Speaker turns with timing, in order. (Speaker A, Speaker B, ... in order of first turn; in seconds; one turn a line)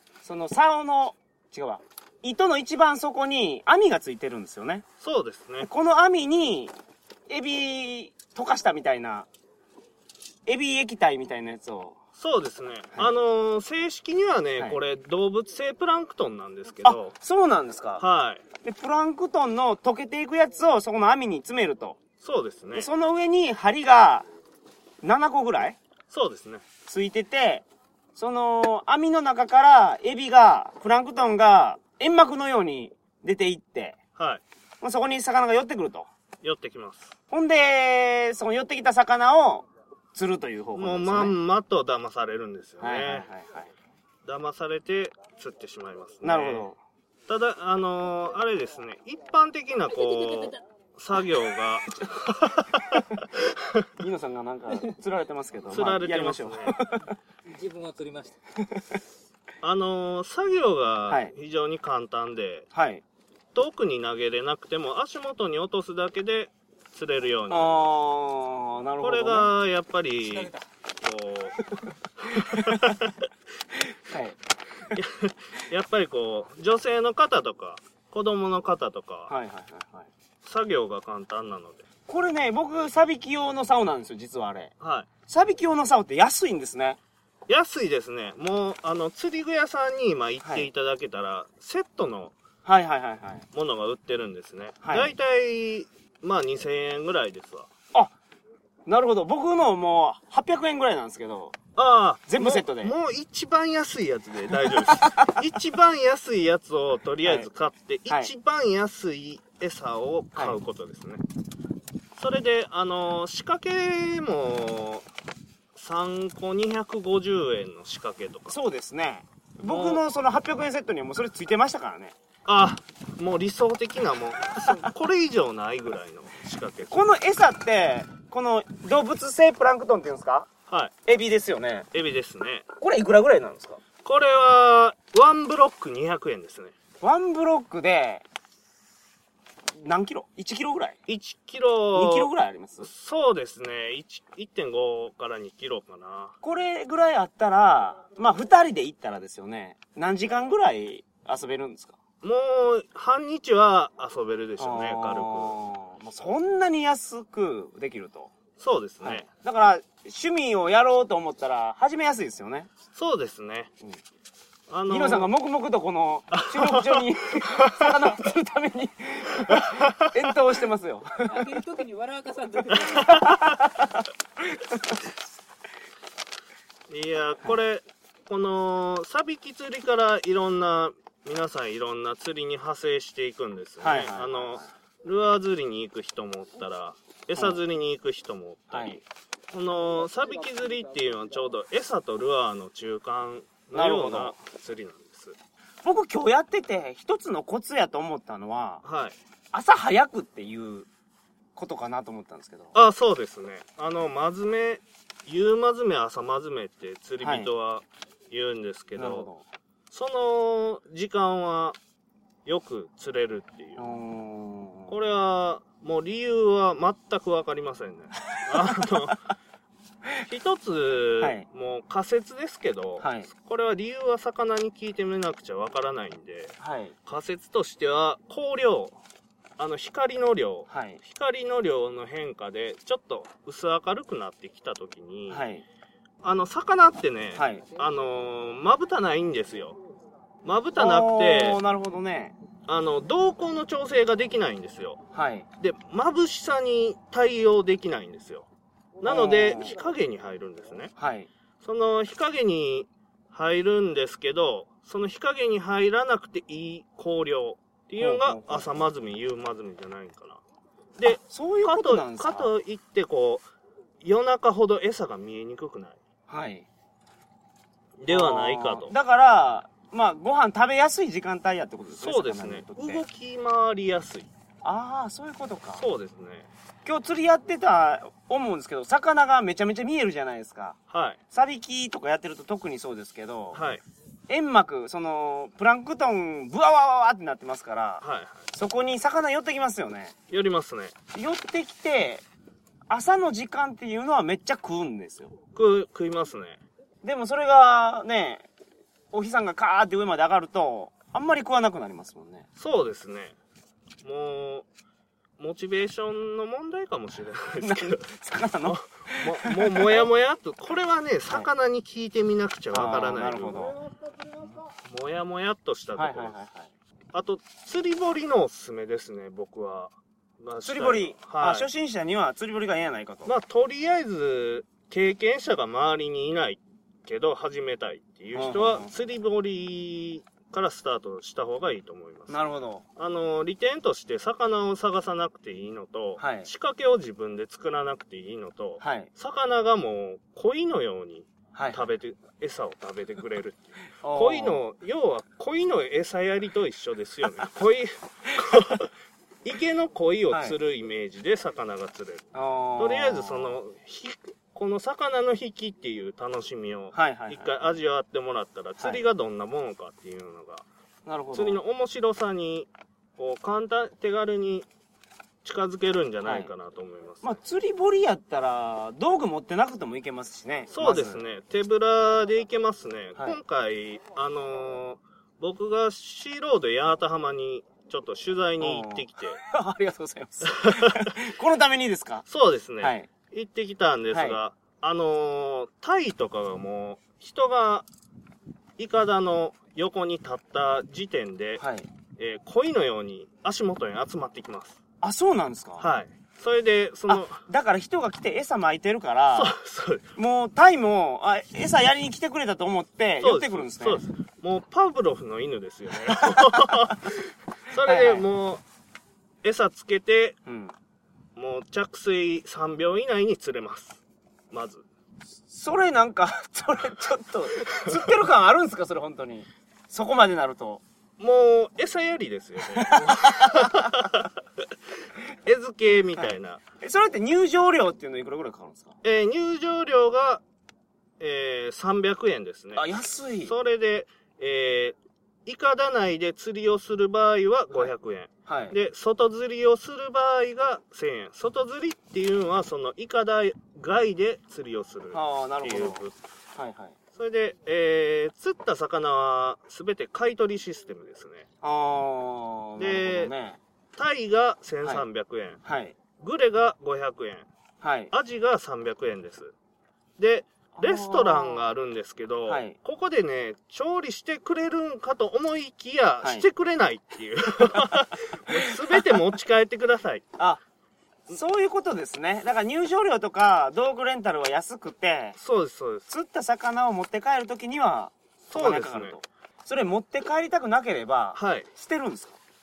Speaker A: 0.2-4.8
Speaker B: 5.0-5.7
Speaker A: 5.6-6.7
Speaker A: 7.3-9.3
Speaker A: 10.4-12.0
Speaker B: 12.2-17.1
Speaker A: 16.8-18.0
Speaker B: 18.0-18.4
Speaker A: 18.6-22.0
Speaker B: 22.2-22.9
Speaker A: 22.7-24.3
Speaker A: 25.0-25.8
Speaker B: 26.1-26.6
Speaker A: 26.9-27.6
Speaker A: 28.1-34.0
Speaker B: 34.2-34.4
Speaker A: 34.8-36.1
Speaker B: 36.4-37.1
Speaker A: 37.3-41.3
Speaker B: 40.8-43.3
Speaker A: 42.8-43.7
Speaker B: 44.2-46.7
Speaker A: 46.2-46.8
Speaker B: 47.3-53.8
Speaker A: 54.0-57.1
Speaker B: 55.7-56.8
Speaker C: 57.5-58.4
Speaker B: 59.6-62.7
Speaker A: 62.7-63.0
Speaker B: 63.5-67.9
Speaker A: 67.5-69.5
Speaker B: 69.0-71.6
Speaker C: 70.2-70.7
Speaker B: 72.2-73.2
Speaker A: 73.9-74.4
Speaker B: 74.9-79.3
Speaker A: 79.3-80.1
Speaker B: 80.4-81.8
Speaker A: 82.1-84.7
Speaker B: 84.8-85.1
Speaker A: 85.3-87.0
Speaker B: 87.5-92.3
Speaker A: 90.4-90.7
Speaker A: 92.6-93.4
Speaker B: 93.5-97.7
Speaker A: 94.8-95.1
Speaker A: 98.8-101.5
Speaker B: 101.8-111.2
Speaker A: 102.3-102.9
Speaker A: 104.6-105.4
Speaker A: 110.3-110.6
Speaker B: 112.2-115.0
Speaker B: 115.7-118.6
Speaker A: 118.5-122.1
Speaker B: 119.7-120.0
Speaker B: 122.5-127.0
Speaker A: 126.9-130.5
Speaker A: 131.1-131.9
Speaker B: 131.9-132.6
Speaker A: 132.8-133.8
Speaker B: 134.0-136.7
Speaker A: 137.0-138.2
Speaker A: 139.7-141.0
Speaker B: 141.1-146.3
Speaker A: 141.9-142.9
Speaker A: 146.4-151.9
Speaker B: 152.2-155.6
Speaker A: 154.6-158.3
Speaker B: 158.6-159.3
Speaker A: 159.0-162.7
Speaker B: 162.9-163.7
Speaker B: 164.7-165.3
Speaker A: 164.9-171.5
Speaker B: 166.3-167.9
Speaker B: 169.5-170.1
Speaker C: 171.2-173.2
Speaker B: 172.9-173.6
Speaker A: 173.1-175.0
Speaker B: 176.9-189.0
Speaker A: 183.8-184.7
Speaker A: 188.7-189.0
Speaker B: 189.5-195.3
Speaker A: 193.7-194.3
Speaker A: 195.8-198.8
Speaker B: 198.8-199.1
Speaker A: 199.5-200.9
Speaker A: 201.6-202.7
Speaker B: 202.7-209.3
Speaker A: 207.2-207.5
Speaker A: 208.9-209.4
Speaker B: 209.9-211.8
Speaker B: 212.4-213.9
Speaker A: 213.8-214.9
Speaker B: 214.9-219.3
Speaker B: 220.2-229.0
Speaker A: 221.2-221.4
Speaker A: 223.0-223.3
Speaker A: 226.6-226.9
Speaker B: 229.6-235.4
Speaker A: 230.7-231.0
Speaker A: 235.3-235.6
Speaker B: 236.2-239.8
Speaker A: 237.3-237.6
Speaker B: 240.4-241.6
Speaker A: 240.8-242.3
Speaker B: 242.7-245.0
Speaker A: 245.1-245.5
Speaker B: 245.6-248.5
Speaker B: 249.0-250.9
Speaker A: 249.0-249.7
Speaker A: 251.0-251.3
Speaker B: 251.6-260.4
Speaker A: 258.0-258.7
Speaker B: 261.0-263.4
Speaker A: 261.1-262.5
Speaker B: 264.0-266.0
Speaker A: 266.3-266.6
Speaker B: 268.0-268.9
Speaker A: 268.1-273.0
Speaker B: 272.0-274.3
Speaker A: 274.6-275.8
Speaker B: 275.7-276.5
Speaker A: 276.8-280.8
Speaker B: 280.9-281.2
Speaker A: 281.3-283.6
Speaker B: 283.5-283.8
Speaker A: 284.3-290.1
Speaker B: 288.0-288.4
Speaker B: 290.3-290.9
Speaker A: 291.1-292.2
Speaker A: 292.9-295.3
Speaker B: 295.5-296.6
Speaker A: 297.0-298.5
Speaker A: 299.1-302.4
Speaker B: 302.6-303.3
Speaker B: 304.0-304.6
Speaker B: 305.4-308.1
Speaker A: 307.6-310.1
Speaker B: 308.6-313.9
Speaker A: 312.7-313.8
Speaker B: 314.4-316.3
Speaker A: 315.9-316.7
Speaker B: 317.1-321.7
Speaker A: 320.6-323.3
Speaker B: 323.2-332.4
Speaker A: 328.3-328.9
Speaker A: 332.3-332.8
Speaker B: 332.9-348.9
Speaker A: 336.2-336.5
Speaker A: 338.8-339.1
Speaker A: 341.5-341.8
Speaker A: 344.0-344.6
Speaker B: 349.4-360.6
Speaker A: 350.3-350.6
Speaker A: 352.3-353.5
Speaker A: 356.9-357.6
Speaker A: 361.1-361.6
Speaker B: 361.3-364.7
Speaker B: 365.4-367.4
Speaker A: 366.2-366.5
Speaker A: 367.2-371.2
Speaker B: 370.7-379.4
Speaker A: 378.6-382.3
Speaker B: 380.4-381.1
Speaker B: 382.3-387.9
Speaker A: 382.8-383.1
Speaker A: 384.1-384.4
Speaker B: 388.8-391.6
Speaker A: 391.6-391.9
Speaker B: 392.2-394.8
Speaker A: 395.0-395.9
Speaker B: 395.8-397.4
Speaker A: 397.1-399.6
Speaker B: 399.3-400.1
Speaker A: 400.2-404.0
Speaker B: 403.2-408.6
Speaker A: 406.3-406.8
Speaker A: 407.8-408.2
Speaker B: 409.4-410.4
Speaker A: 410.4-410.7
Speaker B: 411.4-414.8
Speaker A: 415.5-420.8
Speaker B: 417.7-417.9
Speaker B: 421.2-424.3
Speaker A: 422.8-423.8
Speaker B: 425.4-426.6
Speaker A: 426.8-428.9
Speaker B: 429.0-430.4
Speaker B: 431.2-432.9
Speaker A: 432.7-433.5
Speaker B: 433.4-446.2
Speaker A: 438.4-438.8
Speaker A: 445.1-446.0
Speaker A: 446.5-446.9
Speaker B: 447.1-451.5
Speaker A: 451.6-453.6
Speaker B: 452.8-453.3
Speaker B: 453.9-455.6
Speaker A: 455.6-455.9
Speaker B: 456.2-457.5
Speaker A: 457.8-458.1
Speaker B: 458.1-459.5
Speaker B: 460.2-470.2
Speaker A: 460.7-461.7
Speaker A: 462.5-462.8
Speaker A: 468.5-469.0
Speaker A: 471.3-475.4
Speaker B: 475.4-476.1
Speaker A: 476.1-482.4
Speaker B: 478.5-479.2
Speaker B: 481.3-481.7